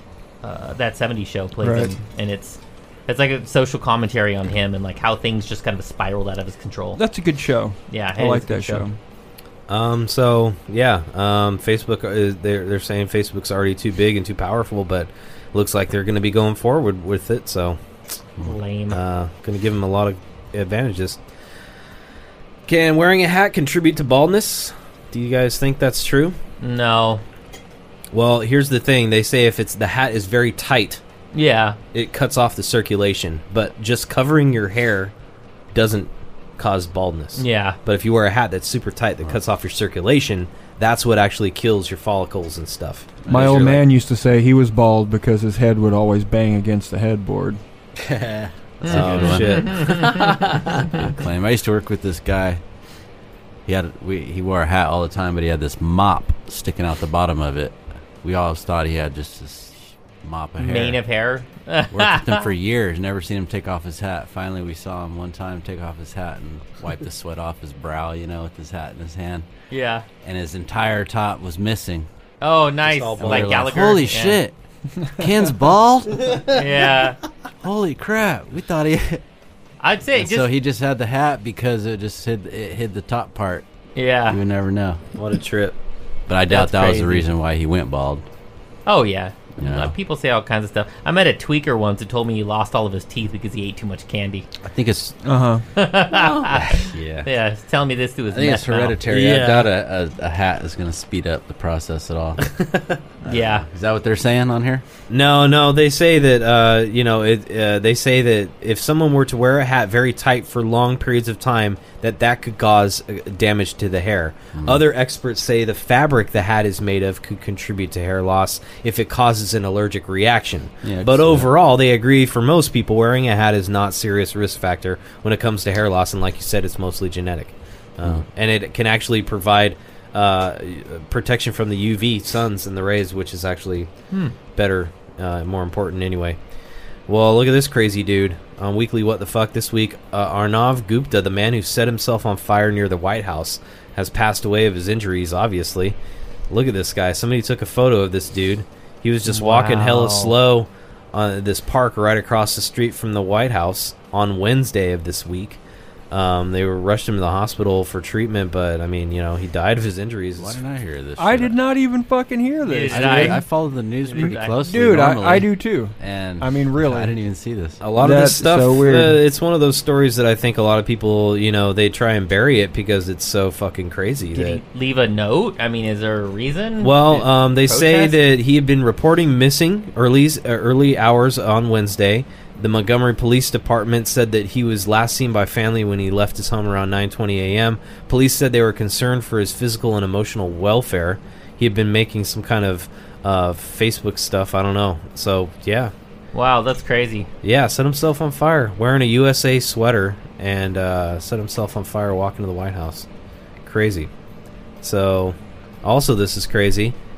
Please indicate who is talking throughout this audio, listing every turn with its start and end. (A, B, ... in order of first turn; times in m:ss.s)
0:00.4-0:07.0 A
0:01.6-0:01.9 B
0:07.0-0:09.0 B
0:07.9-0:08.9 A
0:09.7-0:17.8 C
0:18.4-0:19.0 A
0:18.9-0:21.2 C
0:22.7-0:26.4 C
0:26.6-0:27.2 A
0:28.1-0:31.0 C
0:31.3-0:31.8 A
0:31.9-0:35.1 C
0:35.7-0:43.8 C
0:37.4-0:37.8 A
0:43.3-0:47.6 B
0:48.0-0:52.6 D
0:48.9-0:50.2 A
0:48.9-0:50.9 C
0:53.6-1:01.0 D
1:00.6-1:02.5 A
1:01.9-1:09.4 D
1:09.7-1:10.0 A
1:10.2-1:12.1 D
1:12.4-1:14.4 A
1:12.8-1:13.8 C
1:13.2-1:14.6 D
1:15.1-1:16.4 D
1:16.5-1:17.2 A
1:17.6-1:19.2 D
1:19.8-1:20.5 A
1:20.1-1:23.6 D
1:23.9-1:24.4 A
1:24.3-1:25.0 D
1:25.2-1:25.8 C
1:26.3-1:28.2 D
1:26.5-1:27.3 A
1:28.8-1:34.4 A
1:29.6-1:29.9 D
1:34.6-1:35.2 D
1:35.2-1:35.6 B
1:35.7-1:39.4 A
1:36.2-1:37.3 D
1:38.3-1:42.4 D
1:39.1-1:39.7 C
1:42.5-1:43.0 C
1:43.2-1:44.8 D
1:43.2-1:43.6 A
1:45.1-2:13.9 C
1:54.5-1:54.8 D
2:00.8-2:01.5 D
2:14.5-2:16.4 C
2:17.1-2:26.0 C
2:26.5-2:35.6 C
2:29.2-2:30.4 A
2:36.1-2:40.6 C
2:40.4-2:41.6 D
2:41.2-2:43.4 B
2:42.6-2:43.4 A
2:42.9-2:47.8 D
2:44.0-2:44.6 A
2:44.2-2:47.2 B
2:47.8-2:54.6 C
2:48.0-2:49.2 B
2:54.3-2:58.2 A
2:56.8-3:15.9 C
3:16.3-3:17.3 A
3:17.4-3:23.1 C
3:23.6-3:24.1 C
3:24.8-3:26.9 C